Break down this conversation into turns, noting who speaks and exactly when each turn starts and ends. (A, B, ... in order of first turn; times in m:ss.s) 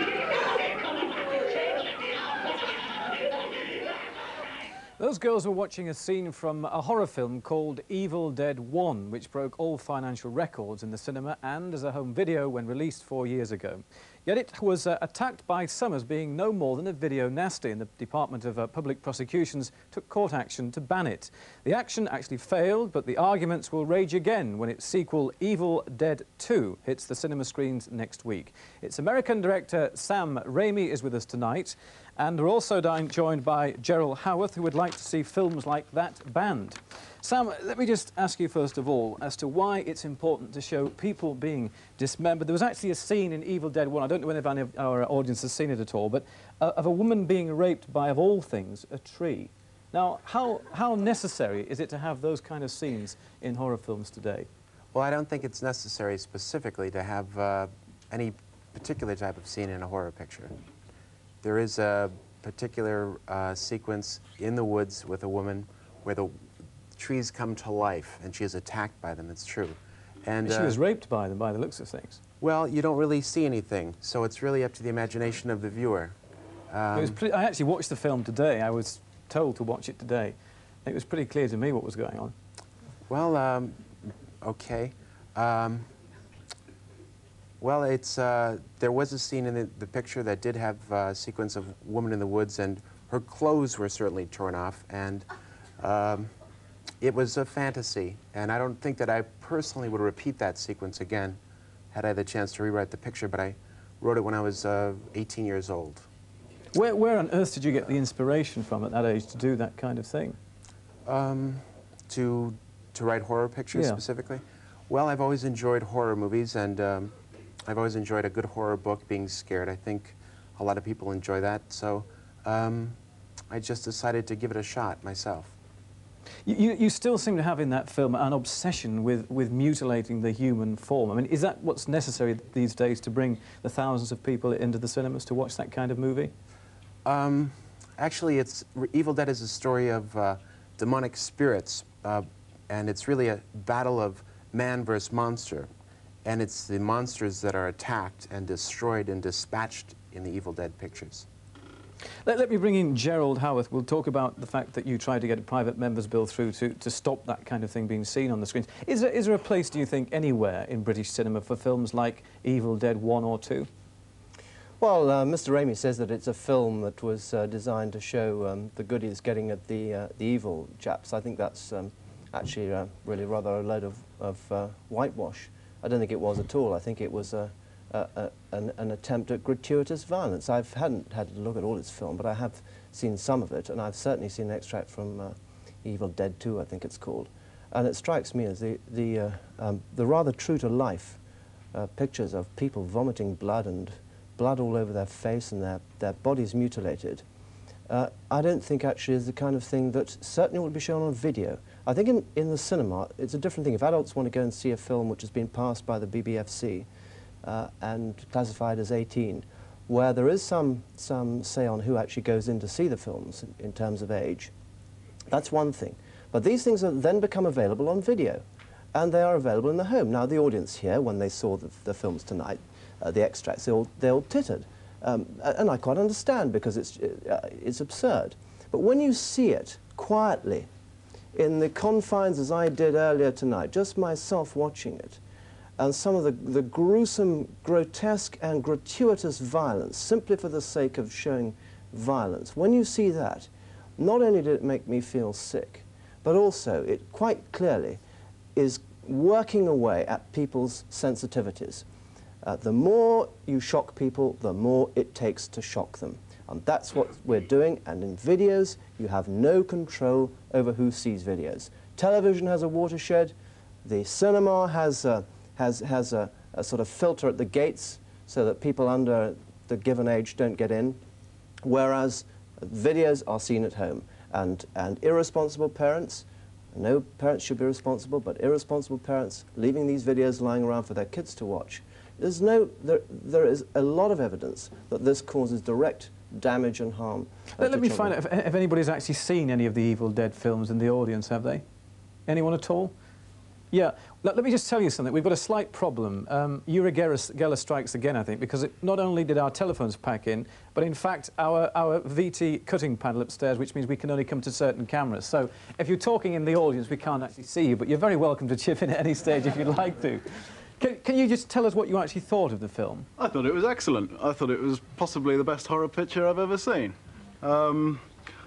0:05.0-0:54.5 A
0:54.9-1:00.5 B
1:01.4-1:06.4 B
1:06.9-1:10.8 B
1:10.4-1:12.2 A
1:12.4-1:16.2 B
1:16.7-1:17.2 B
1:16.9-1:22.3 A
1:23.1-1:25.9 B
1:27.6-1:35.2 B
1:35.8-1:36.3 B
1:37.0-1:41.4 B
1:41.9-1:46.1 B
1:46.7-1:50.4 A
1:51.0-2:03.0 B
1:53.7-1:54.0 A
2:03.5-2:05.5 B
2:06.4-2:16.3 A
2:17.0-2:25.7 B
2:26.2-2:31.3 B
2:32.2-2:43.7 A
2:44.8-3:11.2 C
3:11.7-3:17.2 C
3:17.9-3:26.9 C
3:27.4-3:34.5 C
3:35.3-3:38.4 C
3:38.9-3:50.7 C
3:51.3-3:55.2 C
3:55.8-4:08.0 C
4:08.6-4:11.8 C
4:12.4-4:23.3 C
4:23.8-4:31.0 C
4:31.6-4:48.1 C
4:47.6-4:51.6 A
4:52.3-4:52.9 A
4:53.7-5:10.2 A
5:10.8-5:13.1 A
5:13.2-5:18.1 D